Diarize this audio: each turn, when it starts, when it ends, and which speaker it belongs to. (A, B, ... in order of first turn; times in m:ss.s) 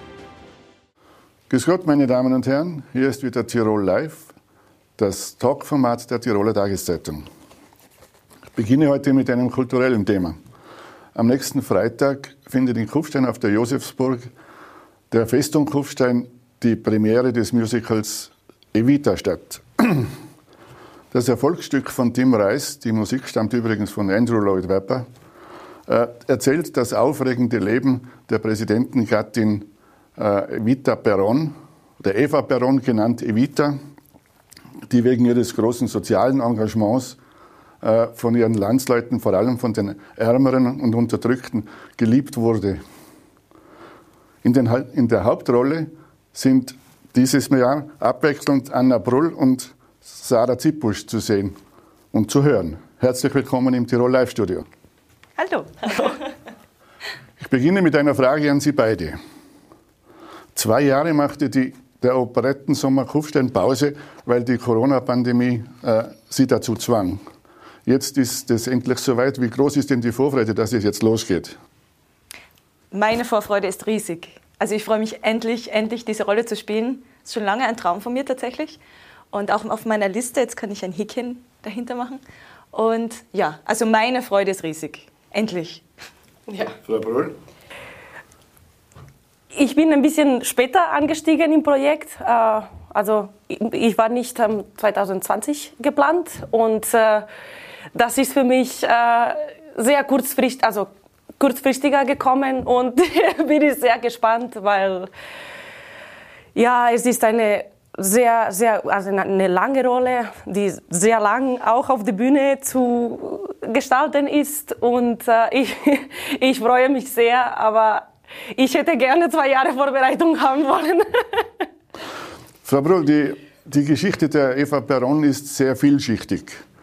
0:01.5-0:04.3 A
0:05.0-0:07.2 A
0:08.6-0:10.4 A
0:11.1-0:14.3 A
0:15.1-0:20.1 A
0:21.1-0:25.0 A
0:25.9-0:33.8 A
0:34.9-0:37.2 A
0:37.8-0:42.8 A
0:44.4-0:51.6 A
0:52.1-0:54.6 A
0:55.4-0:56.2 B
0:57.4-0:59.2 A
1:00.5-1:07.2 A
1:07.8-1:11.6 A
1:12.9-1:18.8 B
1:19.3-1:22.2 B
1:22.7-1:25.8 B
1:26.8-1:27.3 A
1:29.5-1:37.3 C
1:37.9-1:45.1 C
1:46.5-2:01.6 C
2:02.6-2:06.6 A